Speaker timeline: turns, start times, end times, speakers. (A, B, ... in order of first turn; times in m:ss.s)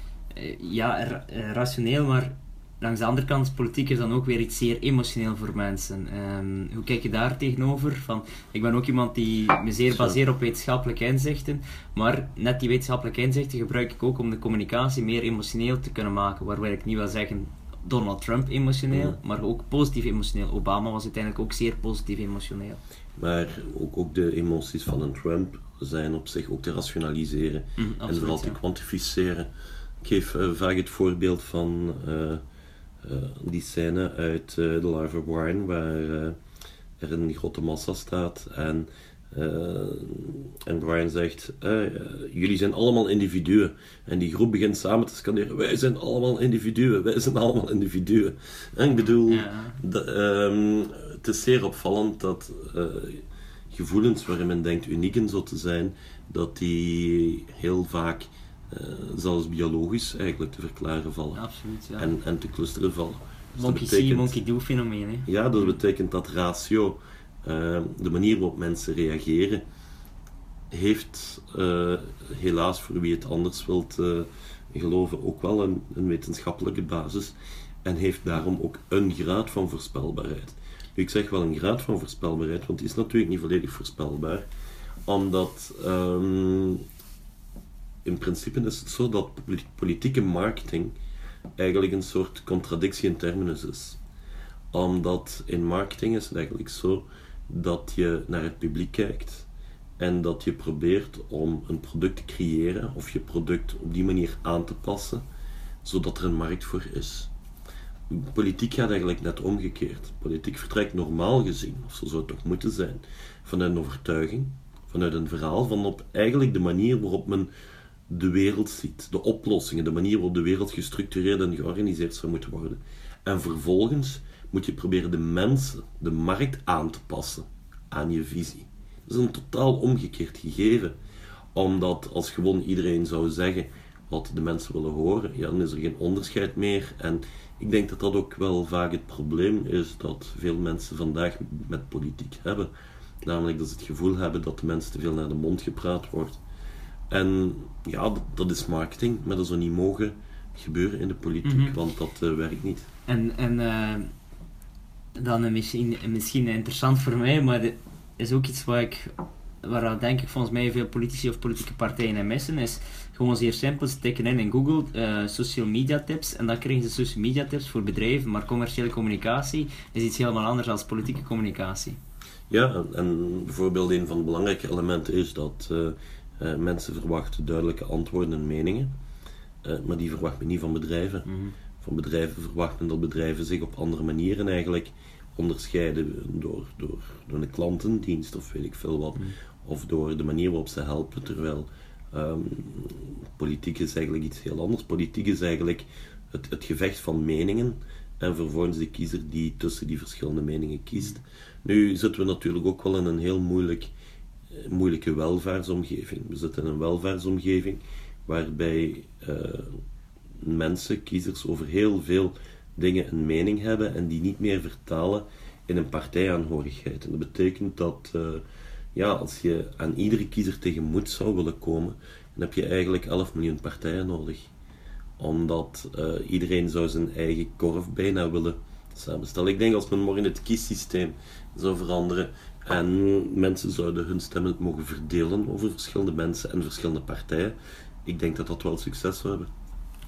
0:00.3-0:22.8 A
0:09.9-0:10.2 B
0:18.9-0:19.2 B
0:23.2-0:29.5 B
0:27.8-0:28.6 A
0:30.0-0:32.4 B
0:33.0-0:36.4 B
0:37.0-1:01.4 B
0:49.1-0:49.8 A
1:01.4-1:02.1 A
1:02.0-1:04.4 B
1:03.6-1:05.8 A
1:05.3-1:09.6 B
1:10.7-1:24.5 B
1:25.1-1:26.8 B
1:28.0-1:31.0 B
1:31.6-1:34.0 B
1:34.7-1:39.5 B
1:40.0-1:45.2 B
1:45.8-1:47.3 B
1:48.1-1:57.5 B
1:58.1-2:11.0 B
2:11.6-2:22.7 B
2:23.2-2:26.4 B
2:27.1-2:32.9 B
2:31.4-2:31.8 A
2:33.1-2:34.1 A
2:35.2-2:52.0 A
2:52.5-2:58.9 B
2:59.6-3:01.3 B
3:01.3-3:01.6 A
3:01.8-3:23.9 B
3:24.6-3:29.8 B
3:30.4-3:44.5 B
3:45.2-3:59.5 B